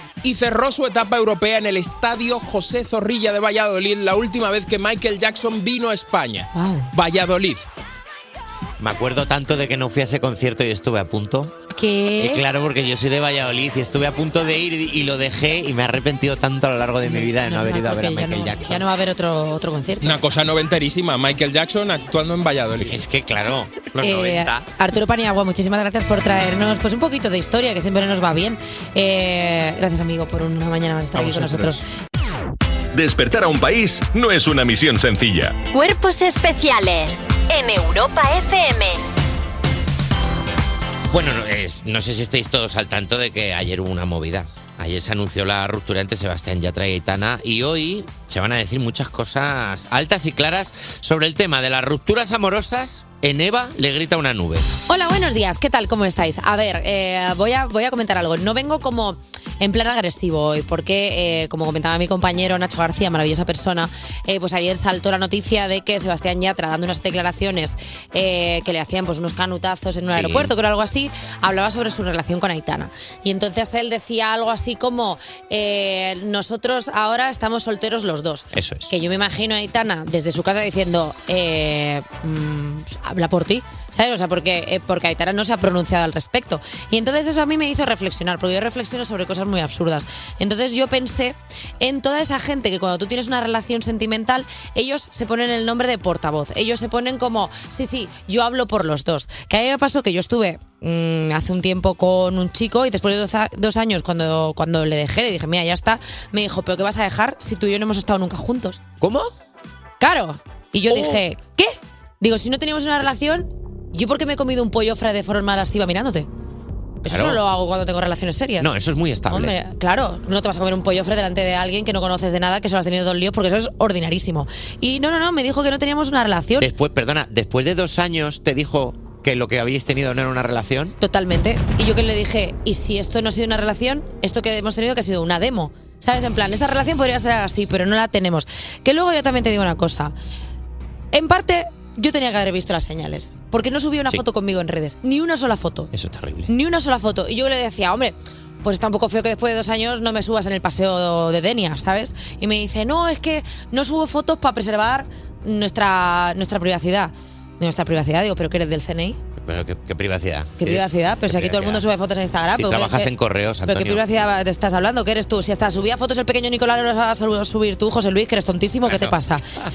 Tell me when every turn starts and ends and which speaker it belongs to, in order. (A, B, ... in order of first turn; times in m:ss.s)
0:00.2-0:07.7 A
0:06.5-0:06.9 B
0:08.8-0:11.5 C
0:11.7-0:12.4 B
0:12.2-0:18.8 C
0:17.0-0:20.2 B
0:20.0-0:23.0 A
0:22.8-0:24.6 C
0:24.0-0:31.8 B
0:31.2-0:31.7 A
0:32.9-0:35.6 D
0:35.7-0:39.0 E
0:41.1-0:54.7 C
0:54.9-1:48.8 B
1:10.1-1:10.5 C
1:18.5-1:18.9 C
1:49.0-1:49.3 C
1:50.0-1:56.3 B
1:50.9-1:51.2 C
1:57.0-1:58.7 B
1:57.1-1:57.4 C
1:58.6-1:59.5 C
1:59.3-2:06.7 B
2:06.6-2:11.0 C
2:11.0-2:20.1 B
2:21.1-2:25.9 B
2:25.9-2:26.5 C
2:26.5-2:39.2 B
2:39.4-2:41.8 C
2:40.6-2:43.1 B
2:42.6-2:44.0 C
2:43.6-2:49.4 B
2:48.9-2:49.1 C